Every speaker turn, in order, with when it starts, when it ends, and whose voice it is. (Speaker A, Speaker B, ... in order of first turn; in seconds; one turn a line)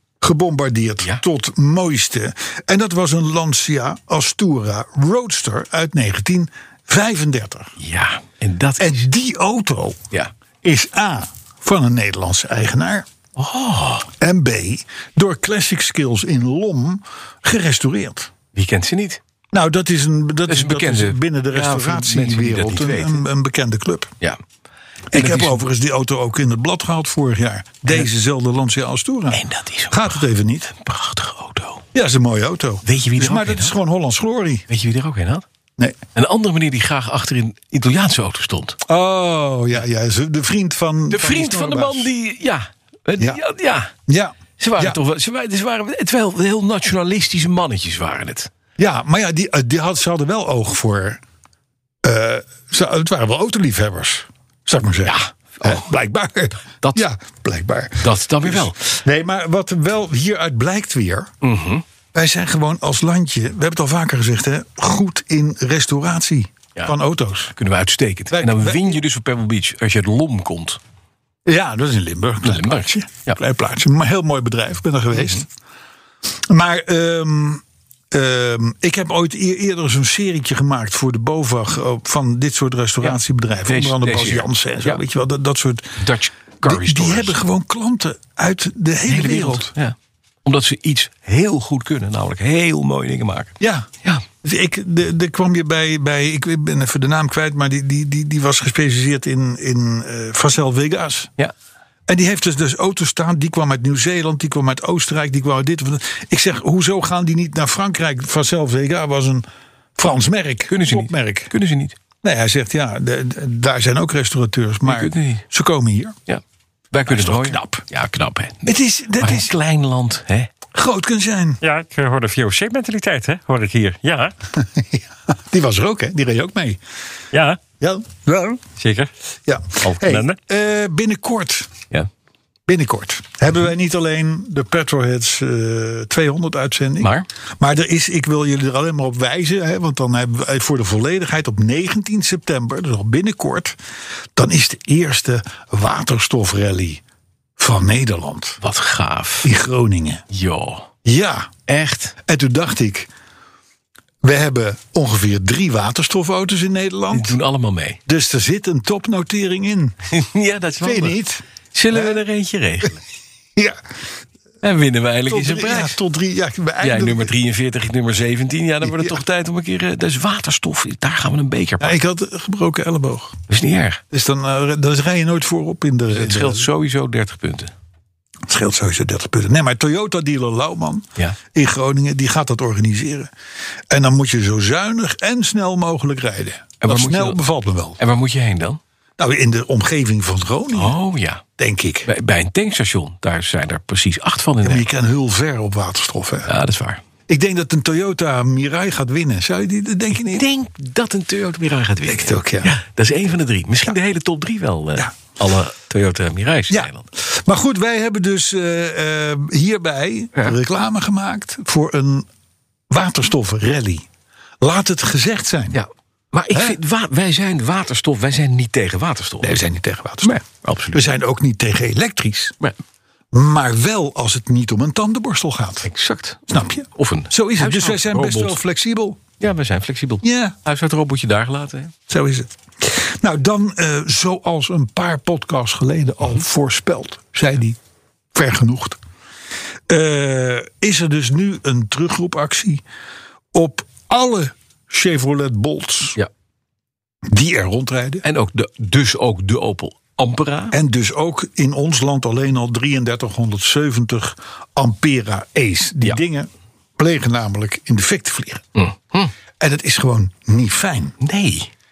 Speaker A: 0.2-7.7
Speaker B: 7.8-8.9
Speaker A: 8.8-10.0
Speaker A: 10.6-13.1
Speaker B: 13.3-14.1
Speaker A: 14.2-18.3
Speaker B: 18.5-19.2
Speaker A: 19.5-24.1
Speaker B: 20.5-23.2
Speaker B: 25.1-25.6
Speaker A: 25.1-30.7
Speaker B: 29.3-31.8
Speaker A: 31.9-34.6
Speaker B: 32.8-33.8
Speaker B: 34.7-35.4
Speaker B: 36.1-38.8
Speaker A: 38.9-42.1
Speaker B: 41.1-43.9
Speaker A: 44.1-45.0
Speaker B: 44.6-48.5
Speaker A: 48.8-51.2
Speaker A: 52.0-61.3
Speaker B: 55.0-55.9
Speaker B: 58.0-58.9
Speaker B: 61.4-61.8
Speaker A: 62.1-67.5
Speaker B: 67.5-70.8
Speaker A: 68.3-69.0
Speaker A: 71.5-75.5
Speaker B: 72.4-73.4
Speaker B: 75.2-75.4
Speaker A: 76.5-86.0
Speaker B: 83.0-85.0
Speaker B: 86.0-87.4
Speaker A: 86.6-89.7
Speaker B: 89.1-94.2
Speaker A: 93.6-93.9
Speaker A: 94.4-101.3
Speaker A: 102.1-111.5
Speaker B: 110.7-112.0
Speaker A: 112.2-116.2
Speaker B: 114.8-115.4
Speaker B: 116.3-120.5
Speaker A: 117.1-117.8
Speaker A: 118.6-119.5
Speaker A: 120.7-121.6
Speaker C: 121.6-124.3
Speaker A: 124.5-126.8
Speaker C: 127.3-127.6
Speaker A: 127.8-128.6
Speaker C: 128.8-129.1
Speaker A: 129.4-131.7
Speaker C: 130.0-130.3
Speaker A: 132.7-143.8
Speaker B: 137.0-137.3
Speaker A: 144.3-147.0
Speaker A: 147.6-148.6
Speaker B: 148.6-149.5
Speaker A: 149.4-150.2
Speaker B: 150.3-150.9
Speaker A: 151.0-151.5
Speaker B: 151.7-152.2
Speaker A: 152.2-153.1
Speaker A: 154.2-157.4
Speaker B: 157.1-158.0
Speaker A: 158.1-159.9
Speaker B: 160.1-161.2
Speaker A: 160.8-162.2
Speaker B: 161.7-163.0
Speaker B: 164.6-166.0
Speaker A: 165.3-167.3
Speaker B: 166.8-172.0
Speaker A: 168.8-169.2
Speaker A: 171.8-173.4
Speaker B: 173.5-174.0
Speaker A: 174.1-176.7
Speaker B: 176.1-177.7
Speaker A: 178.5-183.3
Speaker A: 183.9-188.0
Speaker B: 186.8-187.4
Speaker B: 188.0-188.8
Speaker A: 189.2-190.9
Speaker B: 190.7-191.4
Speaker A: 191.6-192.1
Speaker B: 192.1-194.8
Speaker A: 194.6-196.5
Speaker B: 196.4-197.0
Speaker A: 197.3-200.4
Speaker B: 200.1-207.1
Speaker A: 202.0-202.7
Speaker A: 206.7-212.3
Speaker A: 212.9-214.1
Speaker A: 214.6-215.8
Speaker B: 215.7-219.6
Speaker A: 216.5-216.8
Speaker A: 219.4-220.3
Speaker B: 220.2-221.1
Speaker A: 220.9-222.5
Speaker A: 223.3-225.9
Speaker B: 225.8-228.6
Speaker A: 226.5-229.2
Speaker B: 229.4-231.9
Speaker A: 230.2-230.5
Speaker A: 232.1-237.8
Speaker A: 238.3-239.0
Speaker A: 239.9-242.8
Speaker A: 243.5-246.2
Speaker A: 247.2-248.2
Speaker B: 248.2-250.8
Speaker A: 250.7-258.6
Speaker B: 258.8-259.3
Speaker A: 259.6-261.1
Speaker B: 261.2-261.7